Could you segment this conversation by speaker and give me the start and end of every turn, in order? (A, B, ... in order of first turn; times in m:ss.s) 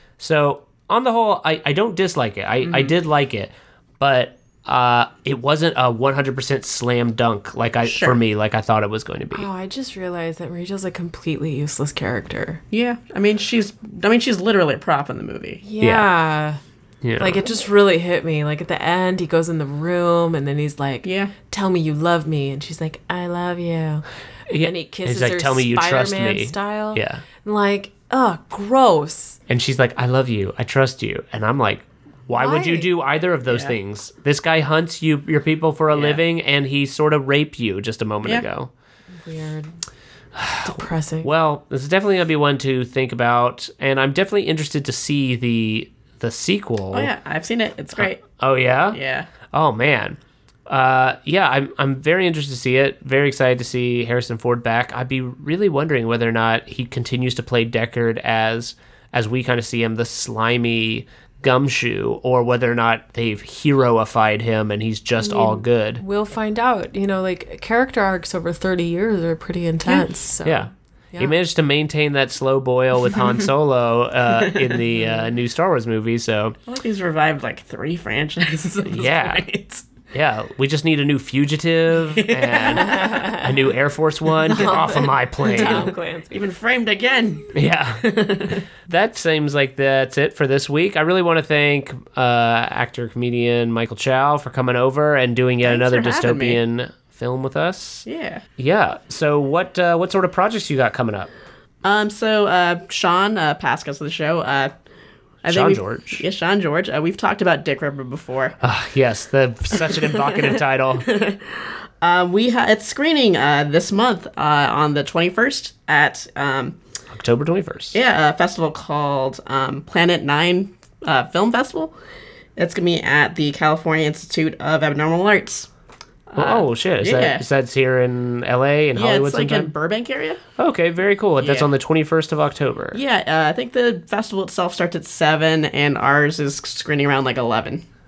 0:00.2-0:09.5 A
0:02.6-0:02.9 B
0:07.8-0:08.2 B
0:09.3-0:12.6 C
0:12.7-0:15.6 B
0:15.6-0:16.6 C
0:15.8-0:16.1 A
0:17.0-0:17.4 A
0:17.2-0:24.0 C
0:21.0-0:21.3 B
0:24.5-0:27.2 A
0:24.6-0:29.4 C
0:29.5-0:38.7 A
0:32.3-0:32.9 C
0:33.5-0:33.7 B
0:35.9-0:36.2 B
0:39.2-0:39.8 C
0:40.3-0:47.1 A
0:40.6-0:41.3 C
0:46.9-0:48.3 B
0:48.0-0:49.0 A
0:48.9-0:49.3 B
0:49.5-1:06.0 A
1:05.2-1:11.3 C
1:10.4-1:16.6 A
1:16.7-1:19.9 B
1:18.8-1:19.4 A
1:20.1-1:25.9 A
1:22.1-1:23.1 B
1:22.8-1:23.4 C
1:24.5-1:26.4 C
1:25.5-1:28.6 B
1:27.5-1:38.1 A
1:35.6-1:36.6 B
1:38.1-1:38.4 B
1:38.6-1:41.3 A
1:41.8-1:44.7 B
1:45.4-1:46.2 A
1:45.4-1:48.5 B
1:48.6-1:51.1 A
1:51.0-1:51.4 B
1:52.0-1:56.8 B
1:57.1-1:58.0 A
1:57.9-2:01.9 B
2:02.6-2:05.7 B
2:06.3-2:07.4 B
2:06.4-2:09.7 A
2:08.9-2:10.4 B
2:10.6-2:13.0 A
2:11.4-2:11.7 B
2:12.9-2:17.8 B